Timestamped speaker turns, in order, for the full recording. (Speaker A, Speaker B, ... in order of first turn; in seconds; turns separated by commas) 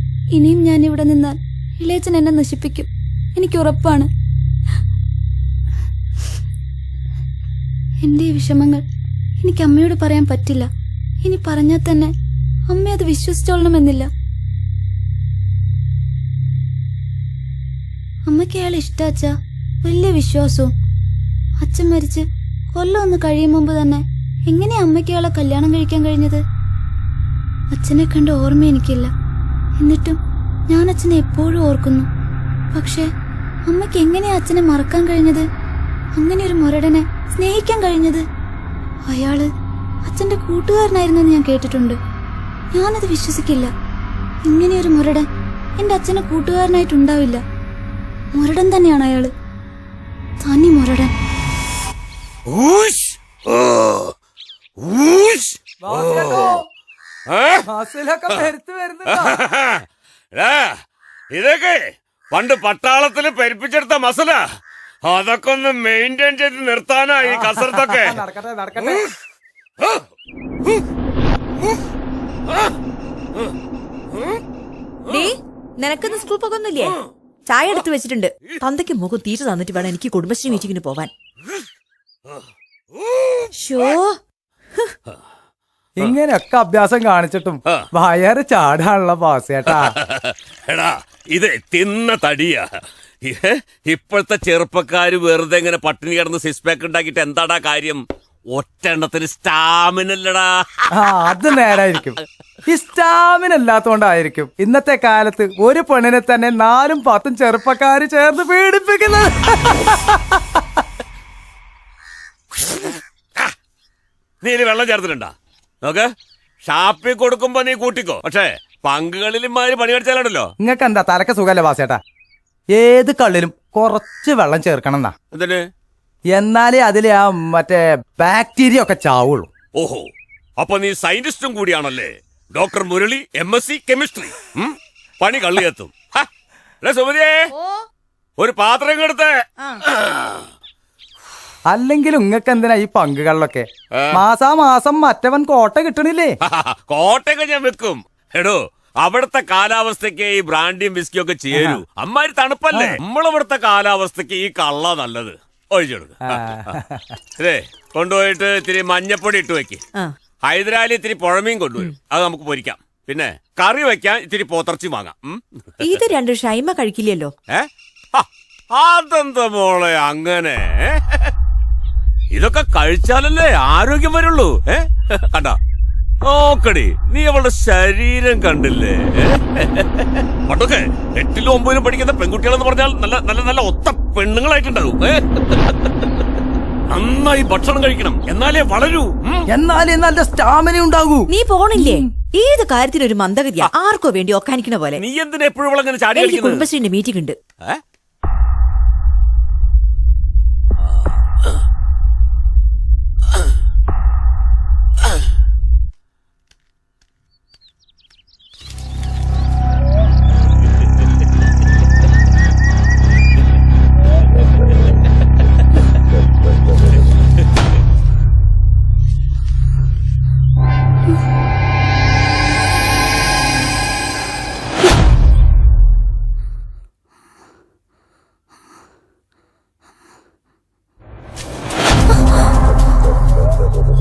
Speaker A: 0.3-4.1, Speaker A: 8.0-8.8, Speaker A: 9.4-10.7, Speaker A: 11.2-12.1, Speaker A: 12.7-14.1, Speaker A: 18.3-19.3, Speaker A: 19.8-20.7, Speaker A: 21.6-26.4, Speaker A: 27.7-29.1, Speaker A: 29.8-32.1, Speaker A: 32.8-33.1, Speaker A: 33.7-35.5, Speaker A: 36.2-38.2, Speaker A: 39.1-39.5, Speaker A: 40.0-42.0, Speaker A: 42.7-43.7, Speaker A: 44.5-45.3, Speaker A: 45.8-47.4, Speaker A: 48.3-49.3, Speaker A: 50.4-51.1, Speaker B: 52.5-54.1, Speaker B: 54.8-56.6, Speaker C: 55.8-56.7, Speaker B: 57.3-57.6, Speaker C: 57.7-59.4, Speaker B: 59.1-59.8, Speaker B: 60.4-60.8, Speaker B: 61.3-64.4, Speaker B: 65.1-68.2, Speaker C: 67.2-69.1, Speaker D: 75.1-77.0, Speaker D: 77.5-81.1, Speaker B: 83.0-83.5, Speaker D: 83.6-84.2, Speaker C: 86.0-90.0, Speaker B: 89.7-92.7, Speaker B: 93.2-100.9, Speaker C: 100.9-110.8, Speaker B: 114.4-116.1, Speaker B: 116.7-120.5, Speaker C: 120.6-122.0, Speaker C: 122.7-125.1, Speaker B: 125.3-125.6, Speaker C: 126.3-129.5, Speaker B: 129.8-136.3, Speaker B: 136.8-137.5, Speaker B: 138.4-139.4, Speaker B: 139.9-140.5, Speaker C: 141.7-146.4, Speaker B: 143.9-144.2, Speaker B: 146.4-156.8, Speaker C: 151.5-151.8, Speaker C: 152.7-153.0, Speaker C: 156.3-157.2, Speaker B: 157.4-159.8, Speaker B: 160.5-165.4, Speaker D: 165.8-167.3, Speaker B: 167.5-171.3, Speaker B: 172.3-175.6, Speaker B: 176.2-185.9, Speaker B: 186.9-189.5, Speaker C: 189.5-191.3, Speaker D: 191.3-195.0, Speaker B: 195.0-196.7, Speaker D: 196.2-197.4, Speaker B: 200.8-201.2